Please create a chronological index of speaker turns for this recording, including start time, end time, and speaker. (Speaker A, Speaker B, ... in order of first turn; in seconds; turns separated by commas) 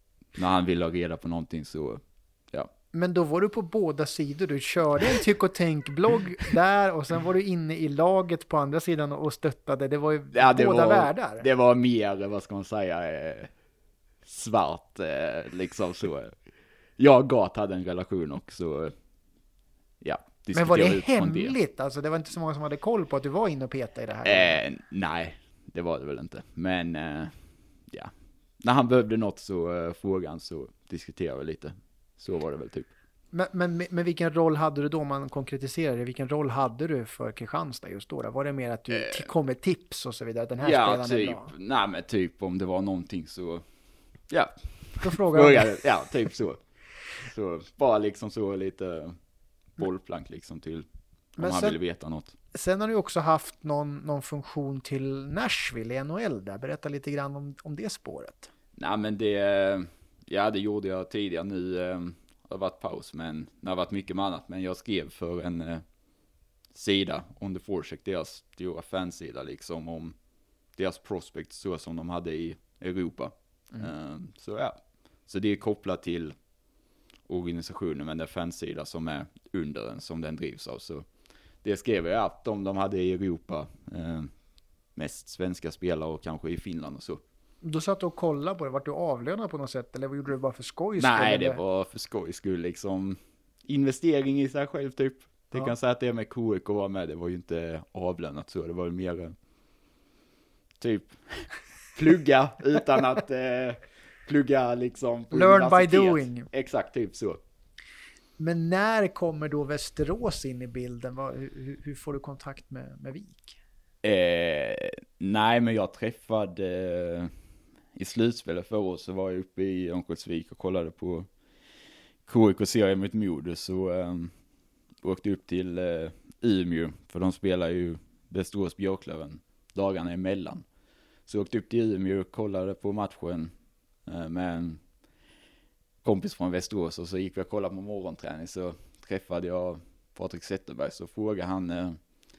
Speaker A: 0.3-2.7, Speaker B: 2.9-11.4, Speaker A: 10.3-13.5, Speaker A: 14.2-16.3, Speaker A: 17.0-18.9, Speaker A: 20.0-21.5, Speaker B: 20.5-24.6, Speaker A: 24.2-27.3, Speaker A: 27.9-32.9, Speaker B: 33.3-41.5, Speaker A: 38.9-39.3, Speaker A: 40.6-43.6, Speaker A: 44.3-46.6, Speaker B: 45.0-45.8, Speaker A: 47.2-49.1, Speaker A: 49.8-50.9, Speaker B: 51.4-51.8, Speaker A: 51.4-52.3, Speaker B: 52.5-58.5, Speaker A: 58.8-65.8, Speaker A: 66.7-70.2, Speaker A: 70.8-76.3, Speaker A: 77.3-81.0, Speaker A: 81.6-84.3, Speaker A: 85.0-87.2, Speaker B: 87.6-91.6, Speaker A: 91.0-99.3, Speaker A: 100.8-107.4, Speaker B: 105.3-106.5, Speaker B: 108.4-113.6, Speaker A: 114.0-117.3, Speaker A: 117.9-121.3, Speaker A: 122.3-124.3, Speaker A: 125.0-130.6, Speaker A: 131.3-133.5, Speaker A: 134.1-134.8, Speaker A: 136.0-142.0